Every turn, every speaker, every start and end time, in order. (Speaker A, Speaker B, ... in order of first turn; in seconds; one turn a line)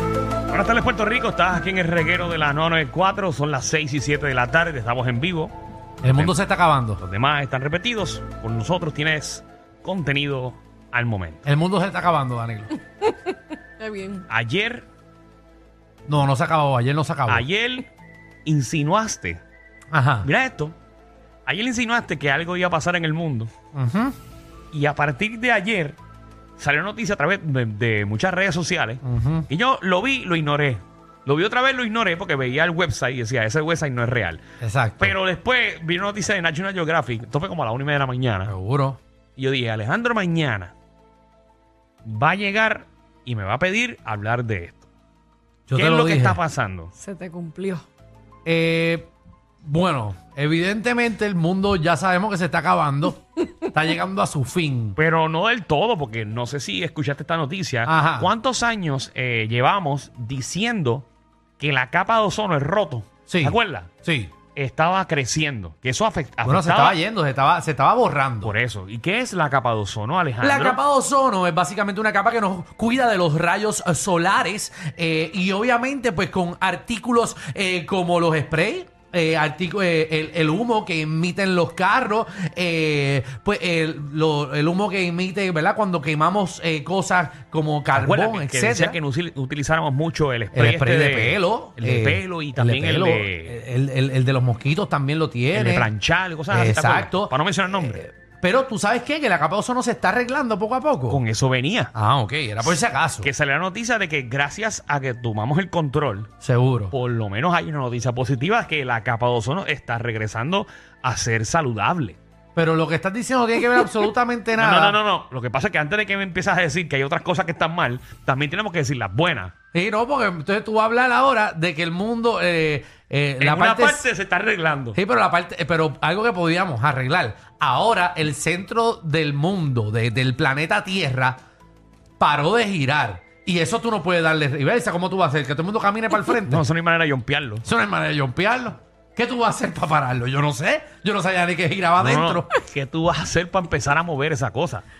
Speaker A: 0.5-5.5
Speaker B: 6.0-7.0
Speaker A: 7.0-11.4
Speaker B: 11.4-12.8
Speaker C: 13.0-14.2
Speaker A: 14.3-14.9
Speaker B: 16.1-17.4
Speaker A: 17.3-17.9
Speaker A: 18.4-19.4
Speaker B: 19.9-20.3
Speaker A: 20.2-20.7
Speaker A: 21.4-23.5
Speaker B: 23.7-24.1
Speaker A: 24.7-26.0
Speaker A: 26.6-34.4
Speaker B: 29.0-29.5
Speaker B: 34.6-35.1
Speaker A: 35.0-38.5
Speaker B: 38.5-39.0
Speaker A: 39.4-40.7
Speaker A: 42.0-44.9
Speaker B: 45.7-46.4
Speaker A: 45.7-46.9
Speaker C: 47.0-47.8
Speaker B: 48.4-49.1
Speaker B: 49.6-55.0
Speaker A: 55.0-61.1
Speaker B: 57.9-58.3
Speaker A: 61.6-63.9
Speaker B: 63.3-64.3
Speaker A: 64.5-67.0
Speaker B: 66.4-68.5
Speaker A: 68.4-70.8
Speaker B: 70.4-89.0
Speaker A: 87.9-93.6
Speaker B: 90.5-95.9
Speaker A: 95.5-98.0
Speaker B: 96.5-101.2
Speaker A: 101.1-101.9
Speaker B: 101.9-103.3
Speaker A: 103.2-106.3
Speaker B: 106.4-106.9
Speaker A: 106.9-112.2
Speaker B: 112.5-115.0
Speaker A: 114.6-119.5
Speaker B: 119.7-124.0
Speaker A: 123.4-125.0
Speaker B: 124.9-131.4
Speaker B: 132.2-136.6
Speaker A: 136.4-137.7
Speaker B: 137.6-142.5
Speaker A: 142.0-144.8